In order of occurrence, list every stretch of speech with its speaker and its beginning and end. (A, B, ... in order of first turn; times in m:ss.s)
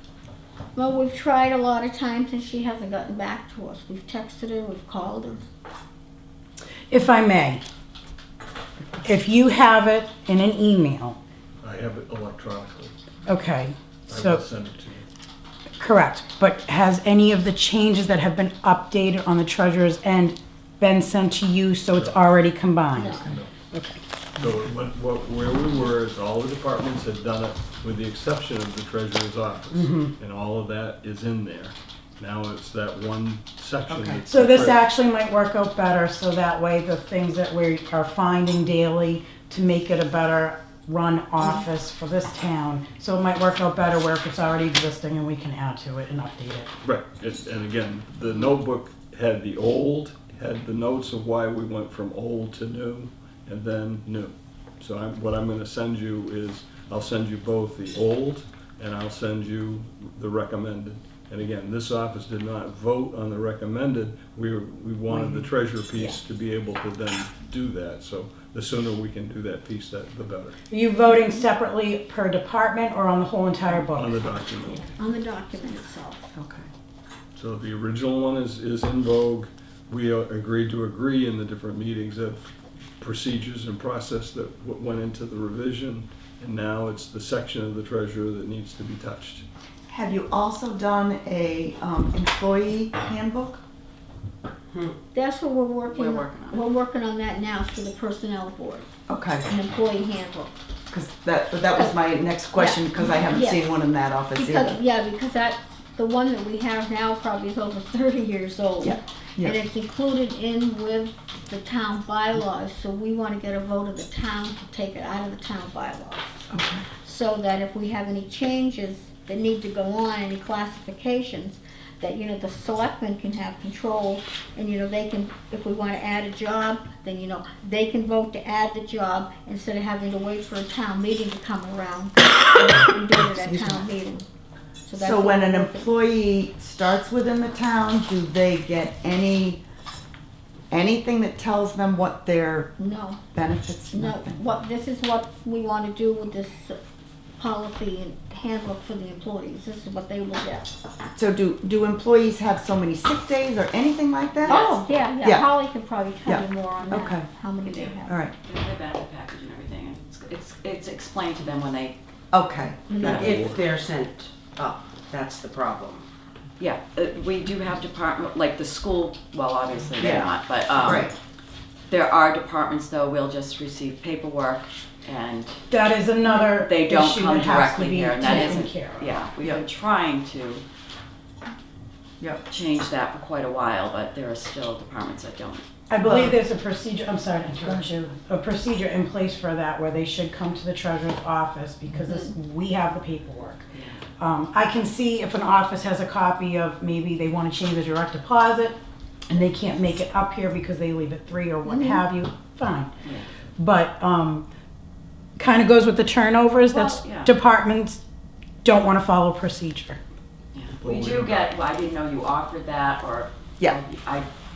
0:00.8-0:05.4 A
0:06.9-0:07.6 B
0:09.0-0:11.2 B
0:11.6-0:12.9 C
0:13.3-0:14.4 B
0:14.1-0:15.1 C
0:15.8-0:24.0 B
0:21.9-0:22.2 C
0:23.0-0:23.3 A
0:23.2-0:23.5 C
0:24.4-0:34.8 C
0:29.7-0:30.1 B
0:33.9-0:34.2 D
0:34.2-0:46.7 B
0:46.8-1:10.6 C
1:10.7-1:14.1 B
1:13.8-1:14.9 C
1:14.9-1:16.3 A
1:16.3-1:16.7 D
1:17.3-1:29.4 C
1:29.9-1:33.6 D
1:35.1-1:38.9 A
1:35.8-1:36.7 E
1:39.1-1:39.5 D
1:39.4-1:40.5 A
1:40.9-1:44.8 D
1:41.7-1:42.0 A
1:42.5-1:43.7 A
1:44.3-2:14.2 A
1:48.8-1:49.6 D
1:56.5-1:56.9 D
2:14.8-2:15.9 A
2:15.0-2:19.6 D
2:20.7-2:22.8 D
2:22.8-2:23.3 A
2:23.3-2:24.4 D
2:23.9-2:26.8 A
2:27.4-2:30.7 A
2:31.1-2:34.6 D
2:34.4-2:38.2 A
2:34.5-2:35.1 E
2:35.2-2:35.5 D
2:36.2-2:37.3 D
2:37.6-2:42.0 E
2:38.1-2:38.3 D
2:42.3-2:43.4 D
2:42.9-2:43.3 A
2:43.0-2:46.0 F
2:43.0-2:43.4 E
2:43.2-2:43.6 C
2:46.6-2:51.1 E
2:50.0-2:50.3 D
2:50.8-2:51.1 D
2:51.9-2:55.6 E
2:55.7-2:59.1 B
2:56.2-3:00.6 E
3:02.5-3:05.6 E
3:05.9-3:13.6 B
3:06.0-3:06.4 D
3:13.7-3:14.0 E
3:14.2-3:18.8 B
3:19.3-3:22.9 B
3:21.7-3:22.0 A
3:23.6-3:24.4 B
3:25.4-3:28.0 B
3:26.7-3:27.3 E
3:28.6-3:30.0 B
3:30.5-3:34.3 E
3:30.8-3:31.5 C